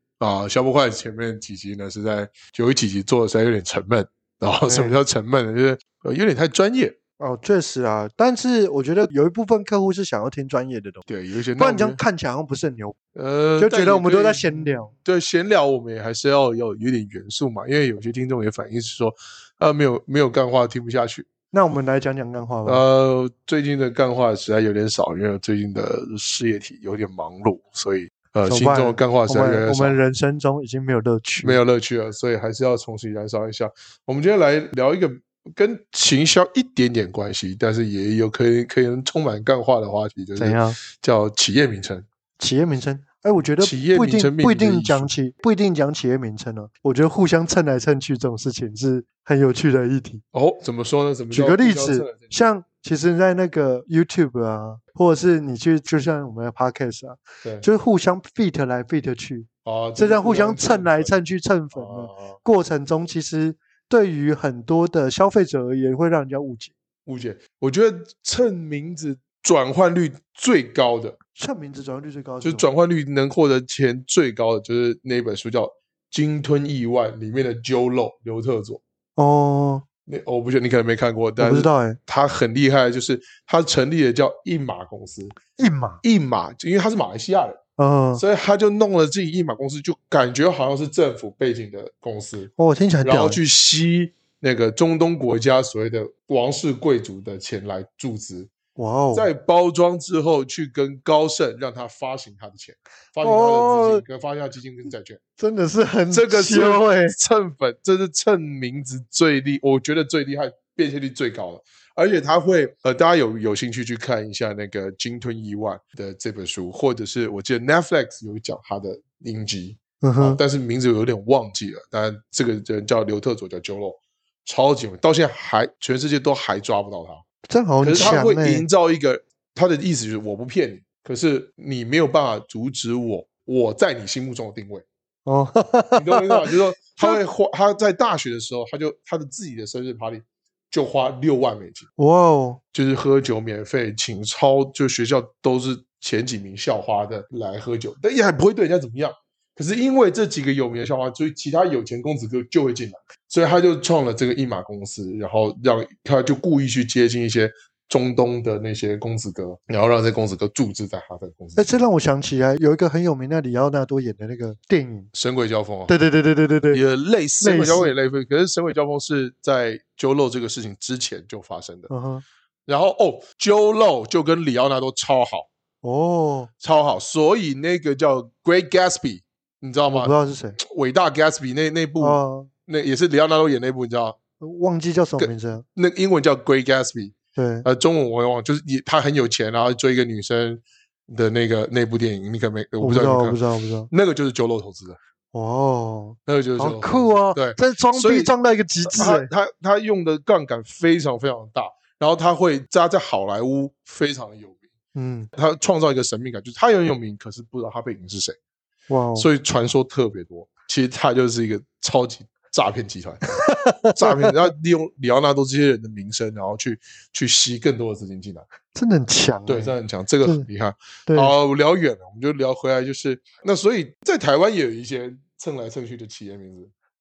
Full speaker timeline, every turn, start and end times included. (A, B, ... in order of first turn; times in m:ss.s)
0:00.2-0:07.0 A
0:04.6-0:04.9 B
0:07.2-0:11.0 B
0:11.1-0:12.0 A
0:11.6-0:13.0 B
0:13.1-0:21.3 A
0:13.6-0:14.9 B
0:21.5-0:22.8 B
0:22.6-0:30.0 A
0:28.4-0:31.6 B
0:31.4-0:42.0 A
0:40.4-0:40.8 B
0:42.4-0:50.2 B
0:43.6-0:45.1 A
0:50.3-0:52.3 A
0:51.3-1:06.7 B
0:59.6-1:01.2 A
1:01.7-1:02.4 A
1:07.0-1:11.2 A
1:11.4-1:12.7 B
1:12.4-1:18.8 A
1:19.2-1:19.8 B
1:20.1-1:25.3 A
1:21.4-1:22.0 B
1:25.6-1:26.0 B
1:26.0-1:27.6 A
1:27.8-1:28.2 B
1:28.2-1:32.5 A
1:32.6-1:33.4 B
1:33.0-1:38.5 A
1:38.8-1:39.3 B
1:39.1-1:45.2 A
1:43.2-1:44.0 B
1:45.4-1:47.2 B
1:46.1-2:07.2 A
2:00.0-2:00.4 B
2:07.5-2:08.6 B
2:07.8-2:14.8 A
2:15.2-2:17.2 B
2:15.9-2:21.9 A
2:22.0-2:22.6 B
2:22.7-2:41.6 A
2:41.6-2:45.1 B
2:45.1-2:45.9 A
2:45.9-2:46.8 B
2:46.7-2:51.9 A
2:47.4-2:47.9 B
2:51.9-2:52.2 B
2:52.7-2:55.5 A
2:55.8-2:56.5 B
2:56.6-3:04.2 A
2:59.9-3:00.6 B
3:02.0-3:02.5 B
3:04.4-3:05.6 B
3:05.2-3:07.1 A
3:07.4-3:07.7 B
3:07.6-3:15.0 A
3:12.8-3:13.9 B
3:15.3-3:19.3 B
3:16.3-3:18.3 A
3:18.8-3:24.6 A
3:24.9-3:25.3 B
3:25.3-3:28.4 A
3:28.9-3:29.3 B
3:29.2-3:33.2 A
3:33.3-3:34.3 B
3:33.9-3:38.4 A
3:38.7-3:40.5 B
3:39.5-3:46.7 A
3:41.1-3:41.3 B